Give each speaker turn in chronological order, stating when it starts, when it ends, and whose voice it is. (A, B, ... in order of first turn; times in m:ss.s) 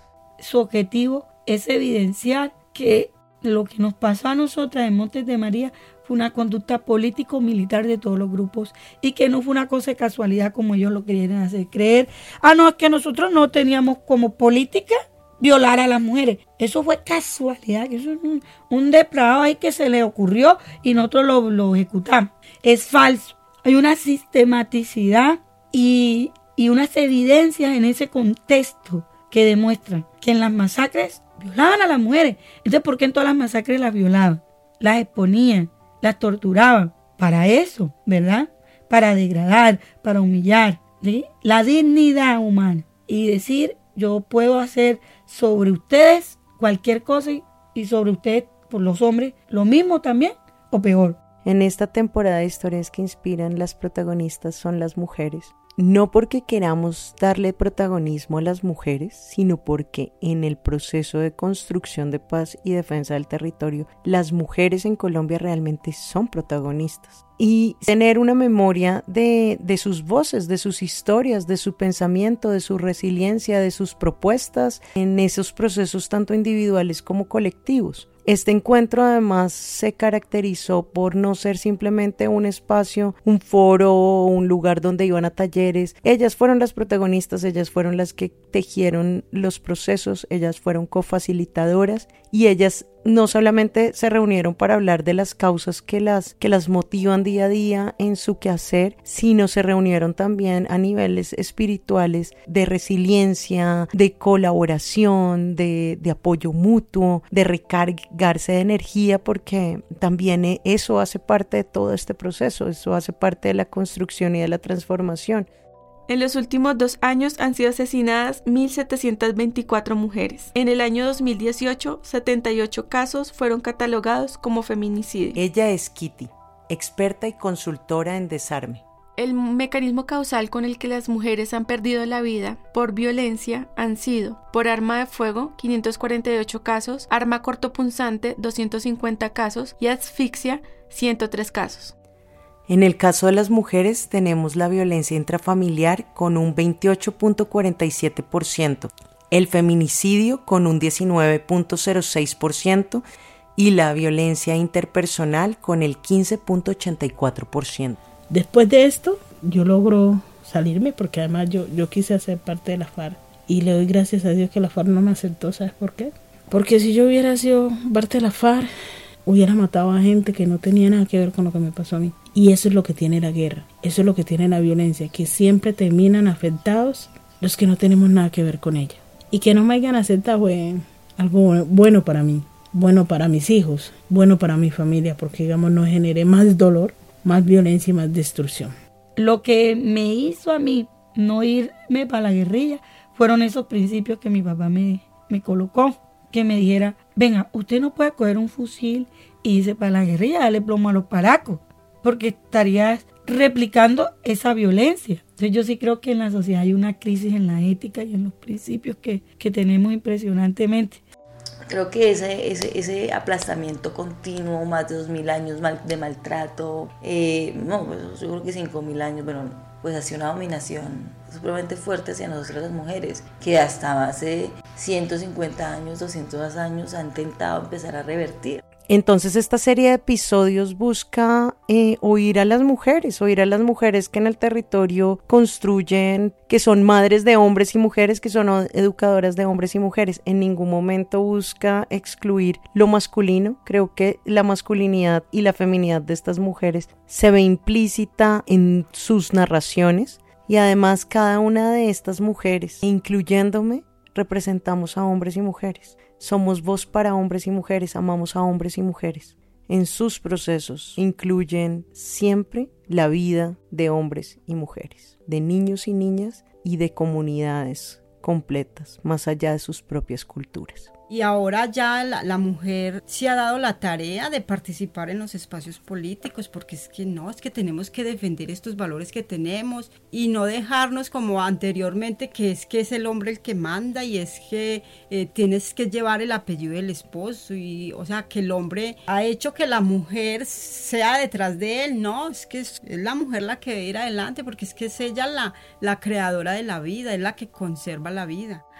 0:00.4-0:51.2 A
0:51.4-1:55.5 B
1:56.1-2:05.4 C
2:05.3-2:08.8 B
2:09.2-2:21.9 C
2:22.7-2:33.0 B
2:33.6-2:38.0 B
2:38.3-2:48.7 D
2:49.2-3:08.7 D
3:09.2-3:31.0 A
3:31.7-3:48.6 E
3:48.9-4:30.9 B
4:31.1-4:58.6 F